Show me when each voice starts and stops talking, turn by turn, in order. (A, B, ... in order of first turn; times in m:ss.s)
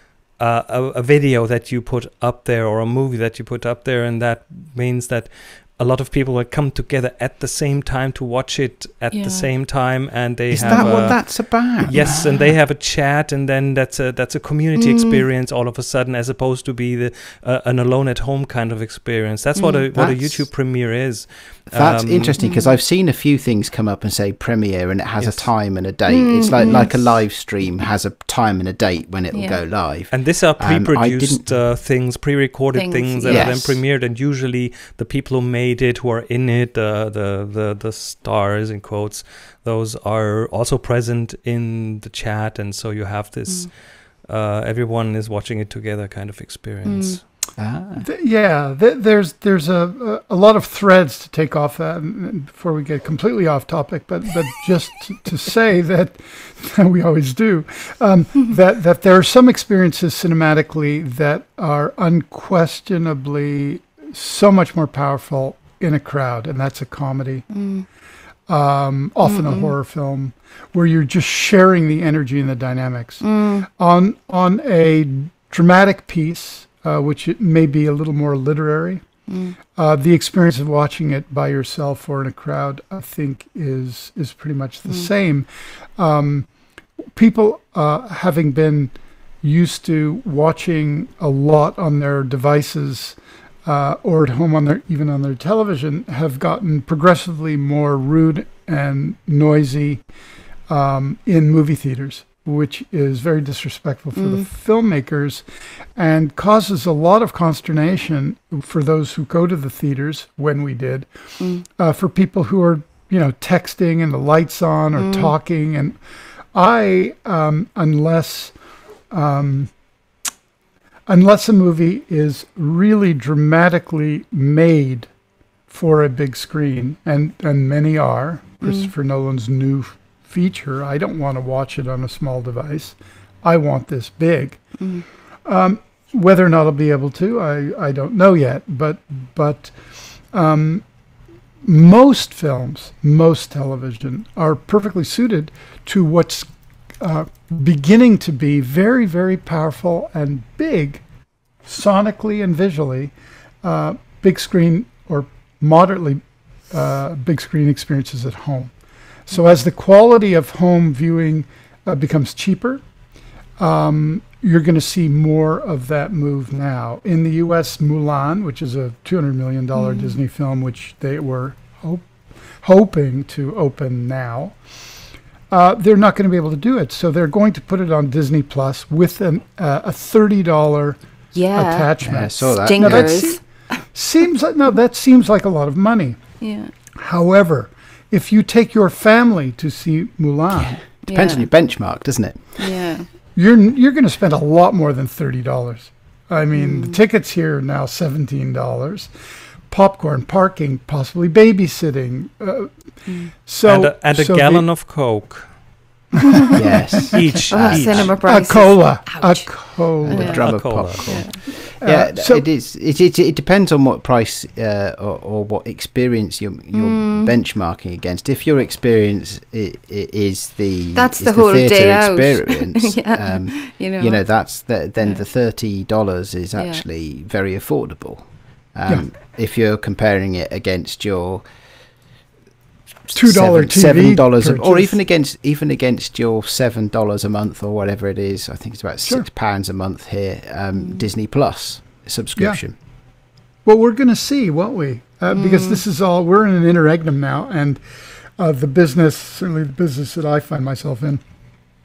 0:00.4-0:22.4 A
0:09.1-0:09.5 B
0:10.5-0:12.5 C
0:10.6-0:11.0 B
0:14.8-0:15.2 B
0:19.6-0:19.8 B
0:19.9-0:20.4 C
0:21.7-0:31.5 C
0:22.4-0:22.8 B
0:25.2-0:25.5 A
0:26.1-0:27.0 B
0:29.3-0:29.6 B
0:30.1-0:47.2 A
0:32.7-0:33.6 B
0:33.2-0:33.8 C
0:46.8-0:47.2 B
0:47.6-0:48.0 C
0:48.0-1:07.4 D
1:07.5-1:07.8 B
1:08.5-1:13.2 D
1:09.2-1:09.7 B
1:13.2-1:13.7 B
1:13.8-1:19.0 D
1:19.3-1:19.6 B
1:19.7-1:25.5 D
1:26.0-1:26.5 D
1:27.1-1:40.0 D
1:40.7-1:45.4 D
1:44.2-1:44.4 B
1:46.0-1:51.1 D
1:51.4-1:51.6 B
1:51.8-1:56.0 D
1:55.0-1:55.3 B
1:56.5-1:58.5 D
1:59.1-1:59.7 D
2:01.1-2:05.1 D
2:05.7-2:14.6 D
2:08.6-2:08.9 B
2:14.8-2:15.0 B
2:15.4-2:19.7 D
2:20.3-2:20.8 D
2:21.6-2:31.0 D
2:31.6-2:38.7 D
2:39.3-2:42.8 D
2:43.6-2:52.1 D
2:49.8-2:50.1 B
2:52.6-2:54.6 D
2:55.5-3:01.0 D
3:01.3-3:03.4 B
3:01.5-3:03.4 D
3:02.0-3:03.2 C
3:03.9-3:06.2 D
3:06.4-3:06.7 B
3:06.9-3:10.8 D
3:10.6-3:12.6 C
3:11.0-3:11.5 B
3:12.6-3:13.1 B
3:13.4-3:19.1 D
3:16.6-3:17.0 B
3:19.7-3:22.7 D
3:23.4-3:24.6 D
3:23.6-3:25.5 A
3:26.2-3:27.0 D
3:26.2-3:26.6 B
3:26.5-3:28.1 C
3:27.0-3:28.1 A
3:27.5-3:29.5 B
3:28.2-3:30.3 D
3:30.0-3:51.4 C
3:30.1-3:30.4 B
3:30.1-3:31.2 A
3:31.0-3:31.4 B
3:31.8-3:32.4 D
3:36.7-3:37.3 B
3:40.9-3:44.2 B
3:46.6-3:46.8 B
3:53.1-4:02.7 C
3:53.1-3:55.0 D
4:00.8-4:01.0 B
4:03.6-4:07.8 D
4:05.3-4:05.8 B
4:08.4-4:11.2 D